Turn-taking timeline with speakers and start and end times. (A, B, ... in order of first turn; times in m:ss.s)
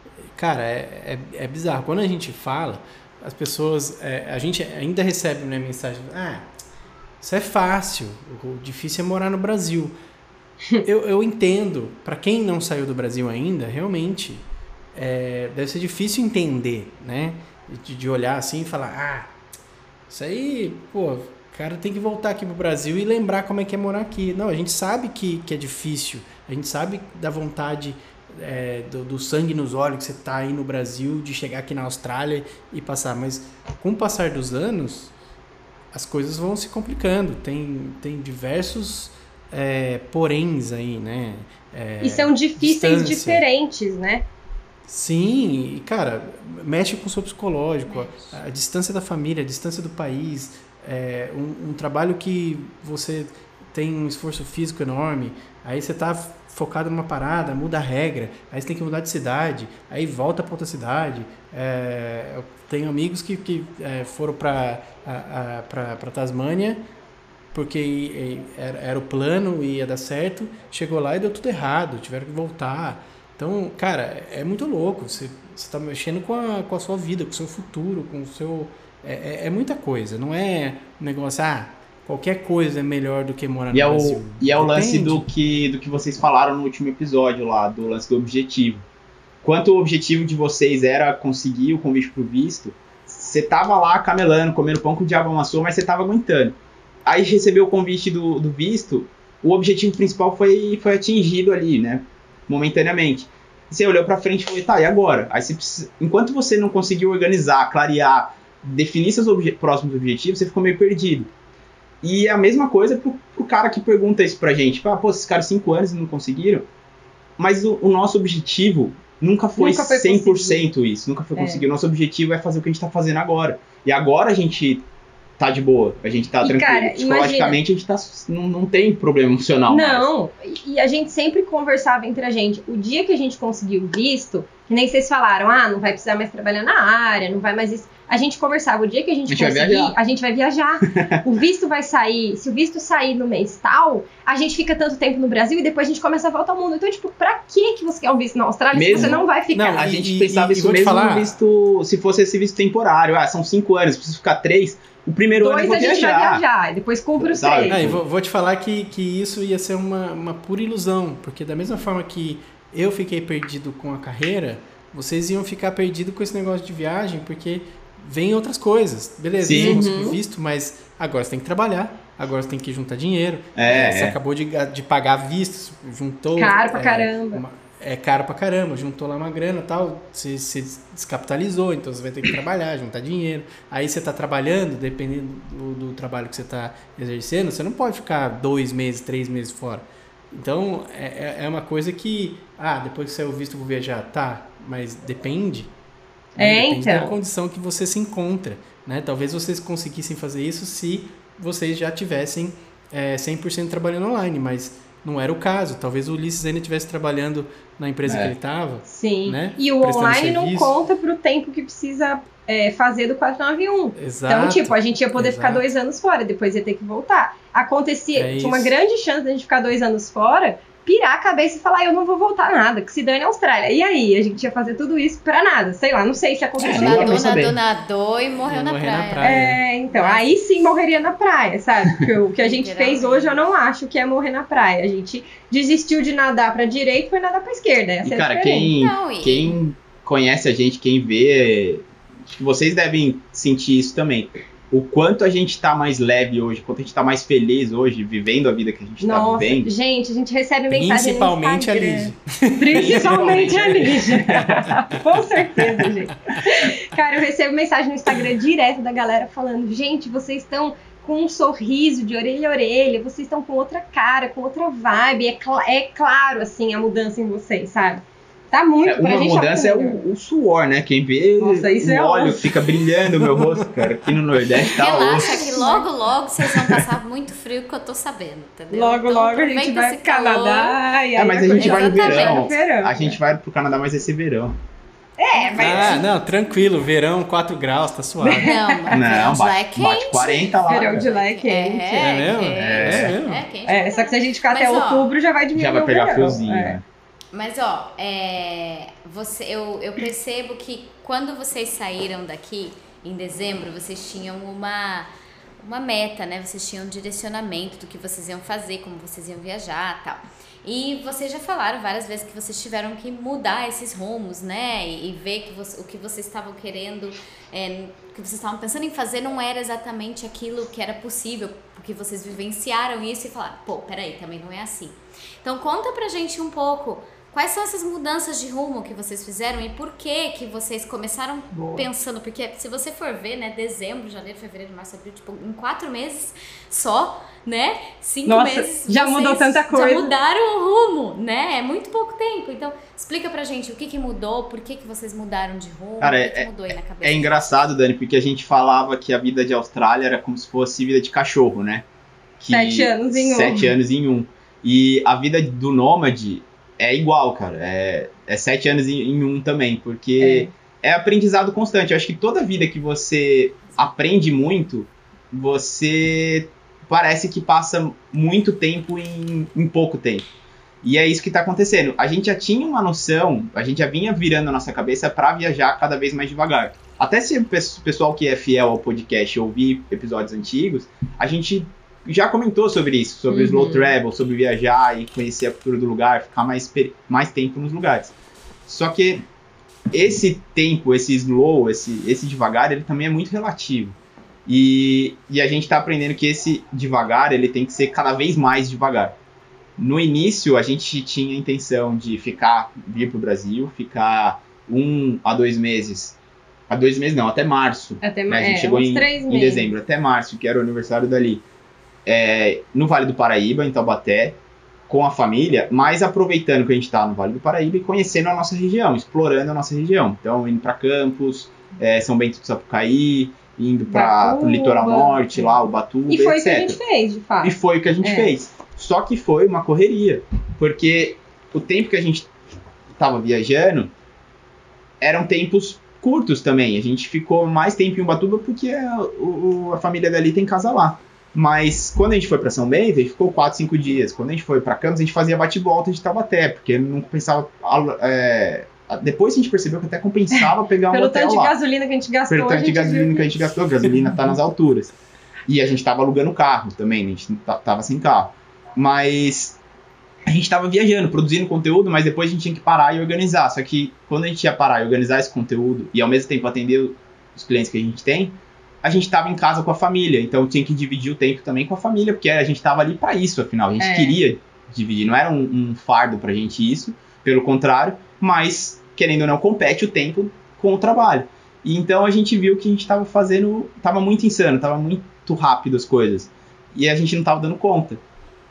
0:00.2-0:06.5 A
0:07.2-0:10.0 A
0:10.8-0:19.4 A
0:20.1-0:35.1 A
0:35.9-0:43.4 A
0:42.0-0:44.2 B
0:44.9-1:06.9 A
0:47.9-0:48.4 C
1:07.5-1:25.2 A
1:23.7-1:28.8 D
1:29.4-1:51.3 D
1:52.0-1:56.7 D
1:57.4-2:04.8 D
1:59.6-2:00.7 B
2:01.4-2:01.6 B
2:05.4-2:10.1 D
2:06.4-2:07.6 B
2:09.7-2:29.9 B
2:19.3-2:20.0 D
2:20.9-2:21.2 D
2:28.7-2:36.4 D
2:28.9-2:31.4 A
2:35.4-2:37.8 B
2:37.2-2:38.0 D
2:37.7-3:15.7 A
2:49.4-2:49.8 D
2:49.5-2:50.2 B
2:53.6-2:54.2 D
2:56.4-2:57.4 B
3:16.4-3:17.2 B
3:16.4-3:30.8 A
3:28.0-3:28.3 D
3:28.9-3:47.3 B
3:34.0-3:35.7 A
3:38.2-3:38.7 A
3:46.6-3:47.6 D
3:46.6-3:50.4 C
3:48.5-3:49.6 A
3:49.2-3:58.7 B
3:52.4-3:53.4 C
3:58.0-4:09.7 D
3:58.8-3:59.6 C
4:09.0-4:30.0 B
4:10.7-4:13.5 A
4:12.7-4:14.6 D
4:14.3-4:14.6 A
4:28.8-4:35.4 D
4:31.4-4:32.4 B
4:33.3-4:33.5 A
4:34.6-4:40.8 C
4:34.9-4:35.9 B
4:38.7-4:43.2 B
4:41.2-4:44.6 D
4:41.5-4:42.6 C
4:45.2-4:46.0 B
4:45.3-4:46.1 C
4:45.6-4:48.5 A
4:48.2-4:48.9 B
4:48.4-4:55.1 C
4:48.9-4:51.1 D
4:50.7-4:52.1 B
4:51.9-4:53.4 A
4:52.6-4:53.2 D
4:53.7-4:56.8 B
4:55.6-4:56.8 D
4:57.3-5:47.5 C
5:31.5-5:31.9 B
5:38.3-5:40.1 B
5:46.0-5:46.5 D
5:47.0-5:51.9 D
5:52.4-6:10.3 D
5:52.5-5:53.7 B
6:00.2-6:00.5 B
6:10.8-6:28.2 D
6:23.3-6:23.9 B
6:28.7-6:29.2 D
6:29.9-6:34.0 D
6:34.5-6:39.2 D
6:39.8-6:46.2 D
6:46.7-6:51.4 D
6:48.0-6:49.7 B
6:52.1-7:06.8 D
7:03.9-7:08.3 B
7:07.4-7:12.3 D
7:13.0-7:13.9 D
7:15.0-7:31.6 D
7:30.4-7:33.5 B
7:32.3-7:34.9 D
7:35.5-7:39.6 D
7:40.3-8:08.0 D
7:53.8-7:54.2 B